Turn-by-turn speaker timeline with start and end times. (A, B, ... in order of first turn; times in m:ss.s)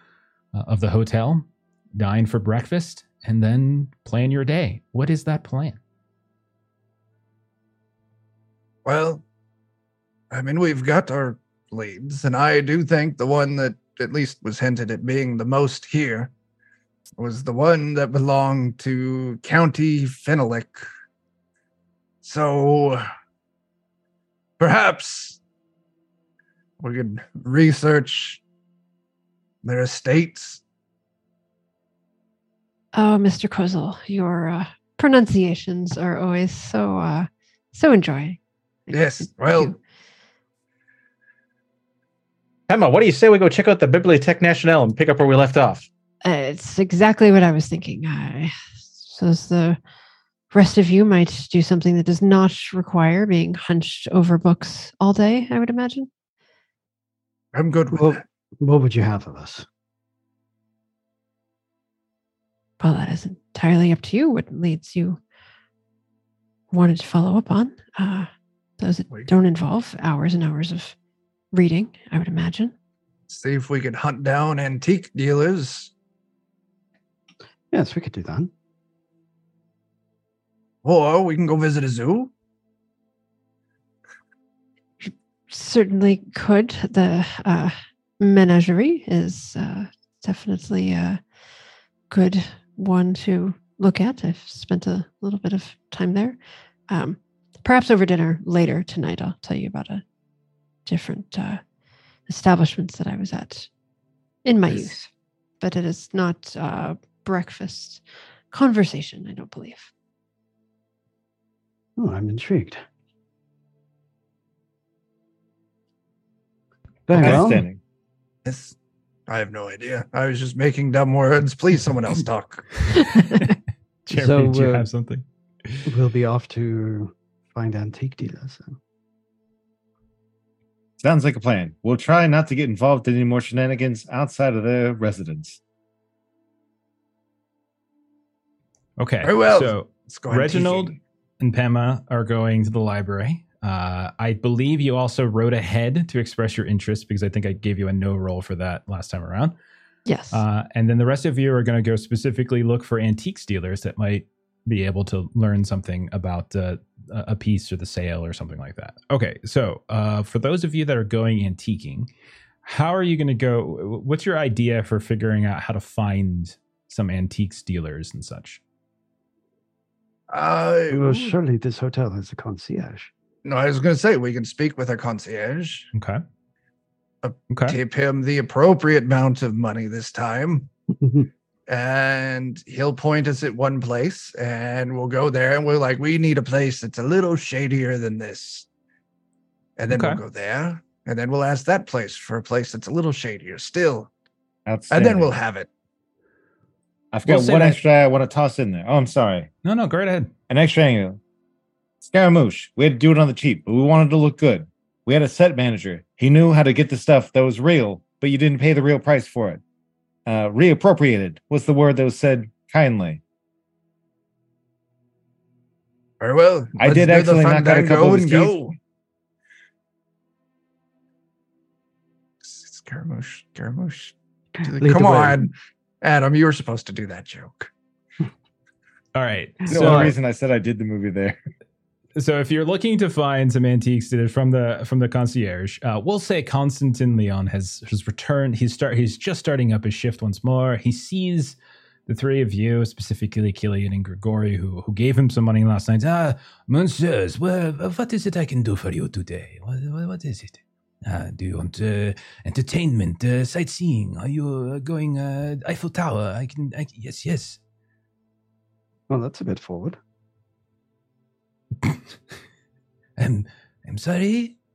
0:00.5-0:05.8 A
0:08.8-0:09.2 B
0:10.3-0:16.3 B
0:17.2-0:20.8 B
0:22.2-0:23.0 B
0:24.6-0:25.4 B
0:26.8-0:28.4 B
0:29.6-0:30.6 B
0:32.9-0:39.8 C
0:38.9-0:39.7 B
0:42.7-0:45.9 D
0:46.2-0:49.8 C
0:50.5-0:56.1 C
0:57.5-0:58.2 B
0:57.9-0:59.6 E
1:02.8-1:05.2 C
1:06.7-1:10.9 C
1:11.5-1:12.7 C
1:13.3-1:15.9 B
1:17.7-1:18.5 E
1:20.8-1:22.3 B
1:25.0-1:31.2 C
1:32.1-1:36.4 C
1:36.9-1:40.0 C
1:40.8-1:41.6 C
1:42.3-1:43.7 C
1:44.4-1:45.1 C
1:45.6-1:49.9 C
1:52.0-1:52.8 E
1:57.1-1:57.6 E
1:57.1-1:57.8 F
1:58.4-1:58.7 B
1:59.3-2:02.8 B
2:02.9-2:03.6 A
2:04.1-2:05.9 A
2:04.1-2:04.9 E
2:05.9-2:08.8 E
2:11.0-2:15.6 F
2:19.0-2:29.5 A
2:19.2-2:21.0 B
2:30.0-2:30.4 C
2:30.3-2:42.1 A
2:42.6-2:48.6 A
2:50.3-2:51.4 B
2:50.9-2:53.1 E
2:53.4-2:55.9 B
2:55.9-2:56.2 A
2:57.2-3:00.7 B
2:57.5-2:57.8 A
3:00.9-3:01.3 E
3:01.7-3:08.7 B
3:09.8-3:14.1 B
3:09.9-3:10.2 A
3:14.6-3:15.4 F
3:14.9-3:15.7 B
3:17.1-3:19.5 F
3:17.2-3:17.8 A
3:19.6-3:20.3 A
3:20.5-3:21.2 F
3:22.0-3:29.6 F
3:30.2-3:33.2 F
3:36.2-3:38.7 B
3:36.8-3:38.6 F
3:42.4-3:47.7 B
3:44.6-3:45.4 E
3:49.1-3:50.1 A
3:49.6-3:50.1 E
3:49.7-3:51.4 F
3:52.2-4:17.6 A
4:19.1-4:20.0 E
4:23.2-4:24.6 A